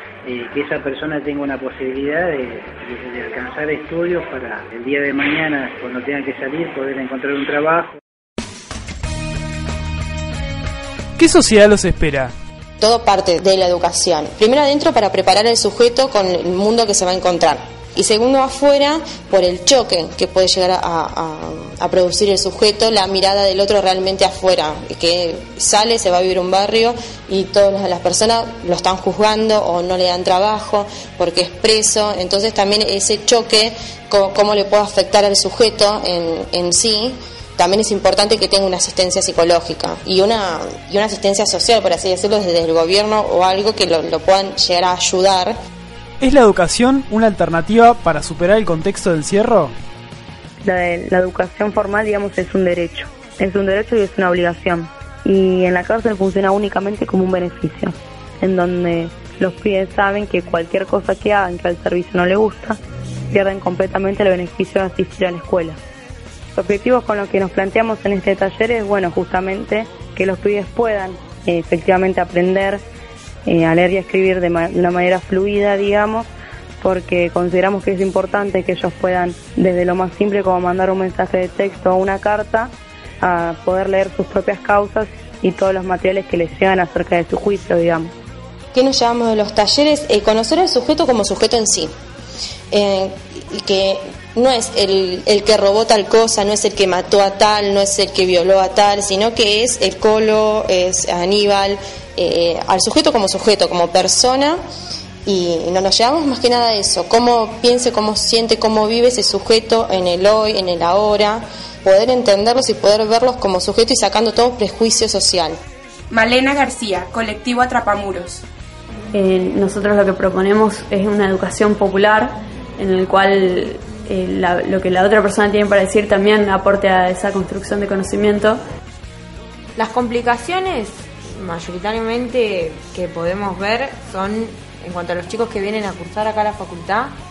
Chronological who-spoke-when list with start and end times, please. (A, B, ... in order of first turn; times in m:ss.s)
0:00.2-0:08.0 A
0:11.2-0:12.3 B
0:12.8-0:45.6 C
0:46.2-0:49.7 B
0:50.6-1:02.8 D
1:03.3-1:05.8 D
1:06.6-1:12.8 D
1:13.5-1:16.3 D
1:16.8-1:28.1 D
1:28.7-1:31.9 C
1:32.7-1:44.6 C
1:45.2-1:55.6 C
1:56.1-1:58.4 E
1:59.1-2:08.6 F
2:09.8-2:17.1 G